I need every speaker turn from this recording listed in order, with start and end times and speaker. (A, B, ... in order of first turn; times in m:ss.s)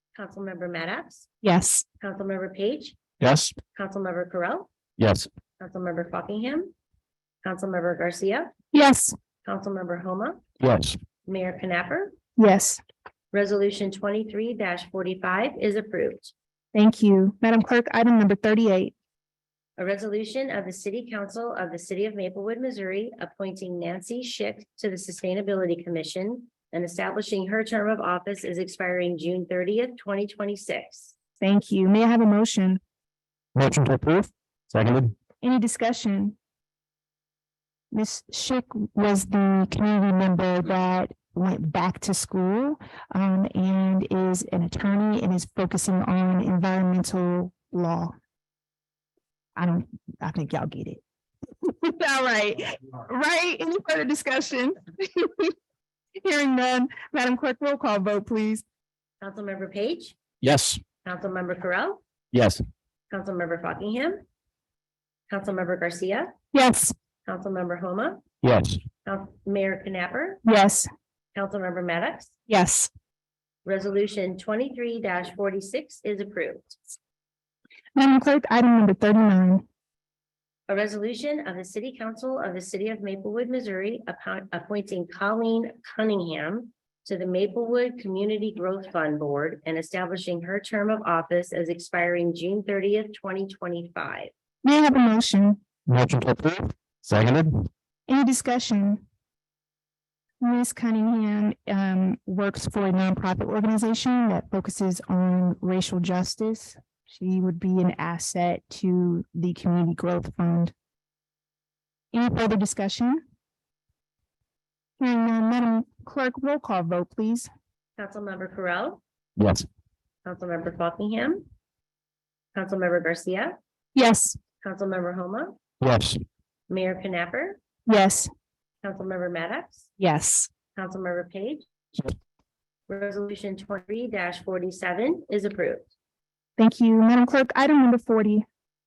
0:00.2-0:01.3 A
0:01.4-0:01.8 B
0:02.0-0:03.0 A
0:03.2-0:03.6 C
0:03.8-0:04.7 A
0:05.0-0:05.3 C
0:05.6-0:06.7 A
0:07.4-0:08.5 A
0:08.7-0:09.1 B
0:09.4-0:10.4 A
0:10.6-0:11.0 C
0:11.3-0:12.2 A
0:12.4-0:12.8 B
0:13.3-0:16.3 A
0:16.7-0:18.9 B
0:19.8-0:31.1 A
0:31.4-0:32.8 B
0:33.6-0:35.1 C
0:35.4-0:36.4 B
0:37.9-0:48.1 B
0:49.6-0:51.0 B
0:51.6-0:55.5 B
0:56.2-0:58.6 B
0:59.2-1:00.2 A
1:00.4-1:00.8 C
1:01.0-1:02.0 A
1:02.3-1:02.6 C
1:03.1-1:04.2 A
1:05.3-1:06.3 A
1:06.5-1:07.0 B
1:07.3-1:08.2 A
1:08.4-1:08.8 C
1:09.0-1:10.4 A
1:10.4-1:10.9 B
1:11.4-1:12.4 A
1:12.5-1:12.9 B
1:13.6-1:16.8 A
1:18.0-1:19.6 B
1:20.7-1:34.3 A
1:34.6-1:35.6 B
1:35.9-1:37.7 C
1:38.1-1:39.0 B
1:40.4-1:50.7 B
1:52.1-1:53.2 B
1:55.0-1:57.5 B
1:58.0-1:59.0 A
1:59.4-1:59.6 C
2:00.2-2:01.5 A
2:02.6-2:03.6 A
2:04.0-2:04.4 B
2:04.6-2:05.6 A
2:05.8-2:06.2 C
2:06.7-2:07.6 A
2:07.9-2:08.3 B
2:08.8-2:09.9 A
2:10.0-2:10.5 B
2:10.8-2:12.1 A
2:12.9-2:15.9 A
2:16.6-2:18.4 B